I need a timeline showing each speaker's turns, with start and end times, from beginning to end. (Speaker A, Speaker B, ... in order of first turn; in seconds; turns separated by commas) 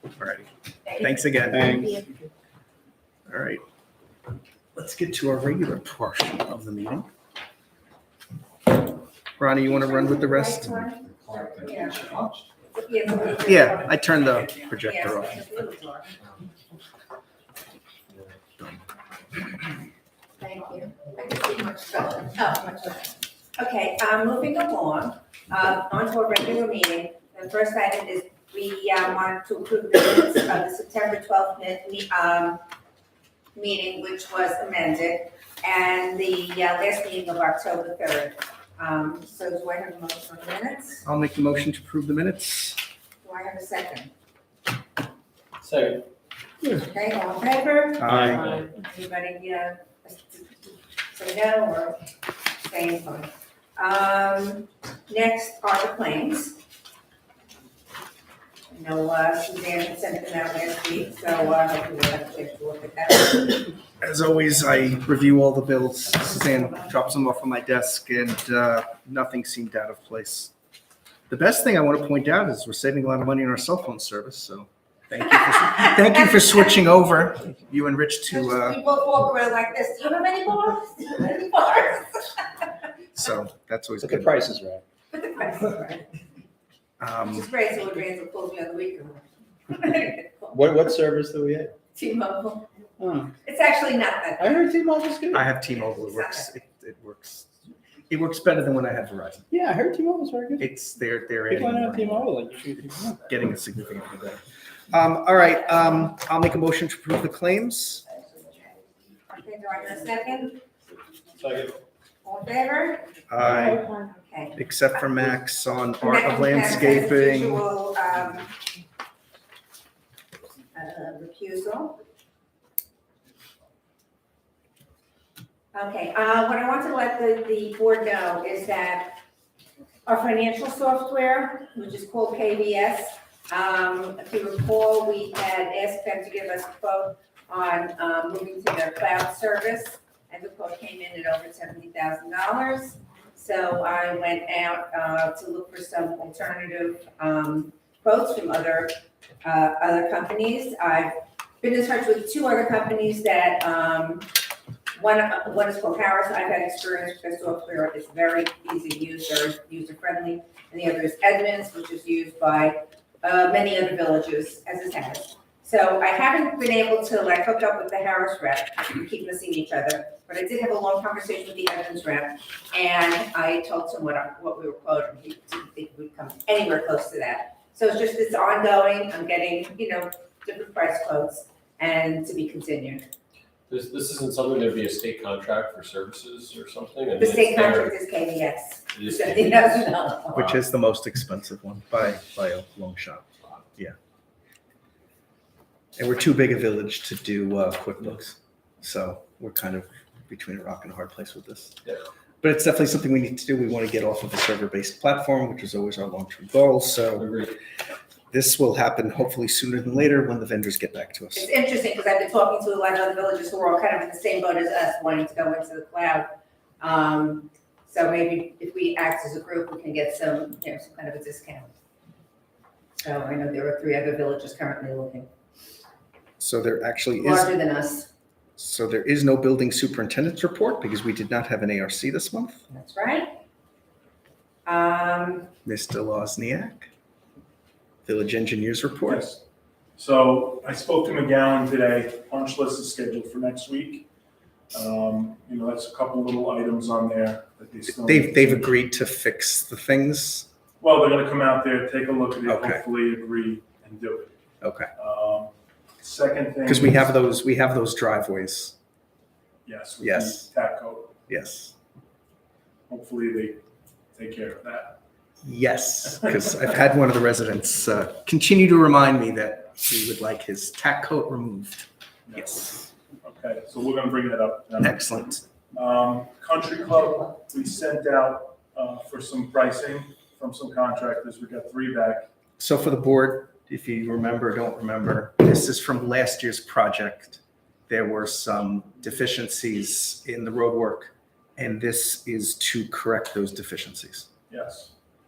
Speaker A: 0.2-1.8, Speaker B: 1.5-2.3, Speaker A: 3.3-3.6, Speaker A: 4.7-7.1, Speaker A: 9.4-10.9, Speaker C: 9.6-12.1, Speaker D: 11.2-12.4, Speaker C: 12.7-16.2, Speaker A: 13.4-15.4, Speaker C: 20.4-32.6, Speaker C: 33.5-41.0, Speaker A: 41.0-42.8, Speaker C: 43.2-44.1, Speaker D: 45.6-46.0, Speaker C: 46.6-52.0, Speaker A: 48.0-48.5, Speaker D: 48.1-48.7, Speaker C: 52.6-56.6, Speaker C: 58.7-63.7, Speaker A: 64.0-70.5, Speaker A: 71.3-78.8, Speaker C: 75.6-75.9, Speaker C: 76.5-76.8, Speaker C: 78.3-82.4, Speaker A: 83.1-84.4, Speaker B: 84.0-84.8, Speaker C: 85.1-86.1, Speaker A: 87.0-87.5, Speaker C: 87.2-90.8, Speaker B: 90.5-91.7, Speaker C: 91.9-92.7, Speaker B: 93.0-93.3, Speaker C: 93.4-94.6, Speaker B: 94.4-95.5, Speaker A: 95.3-97.5, Speaker C: 95.7-96.5, Speaker A: 98.1-99.5, Speaker B: 99.5-100.7, Speaker A: 100.6-108.0, Speaker B: 101.5-103.2, Speaker C: 108.2-108.7, Speaker C: 109.3-110.6, Speaker C: 112.2-113.1, Speaker A: 113.3-113.8, Speaker C: 113.9-114.6, Speaker A: 114.5-117.6, Speaker C: 116.0-118.6, Speaker C: 120.7-122.0, Speaker C: 125.7-129.2, Speaker C: 130.1-154.4, Speaker C: 154.9-183.0, Speaker D: 183.7-187.9, Speaker C: 187.2-190.5, Speaker D: 188.9-189.6, Speaker A: 190.3-193.2, Speaker A: 195.9-201.8, Speaker A: 202.4-207.4, Speaker D: 207.2-207.6, Speaker A: 208.3-211.5, Speaker C: 211.3-221.7, Speaker C: 223.0-225.3, Speaker A: 226.4-227.5, Speaker C: 227.2-228.1, Speaker A: 228.6-232.6, Speaker C: 232.7-233.3, Speaker C: 234.6-235.5, Speaker A: 235.6-236.9, Speaker A: 238.1-239.3, Speaker E: 239.0-239.4, Speaker E: 240.0-244.1, Speaker E: 244.7-248.7, Speaker A: 247.8-250.5, Speaker E: 250.8-254.3, Speaker A: 252.4-252.8, Speaker A: 254.6-254.9, Speaker E: 254.9-257.1, Speaker A: 256.6-258.7, Speaker E: 259.6-261.1, Speaker A: 260.0-260.5, Speaker A: 261.3-261.7, Speaker E: 262.9-263.6, Speaker E: 264.1-265.0, Speaker A: 265.4-272.9, Speaker E: 272.3-275.2, Speaker A: 274.8-275.4, Speaker E: 275.7-282.3, Speaker A: 282.6-294.3, Speaker E: 294.5-294.9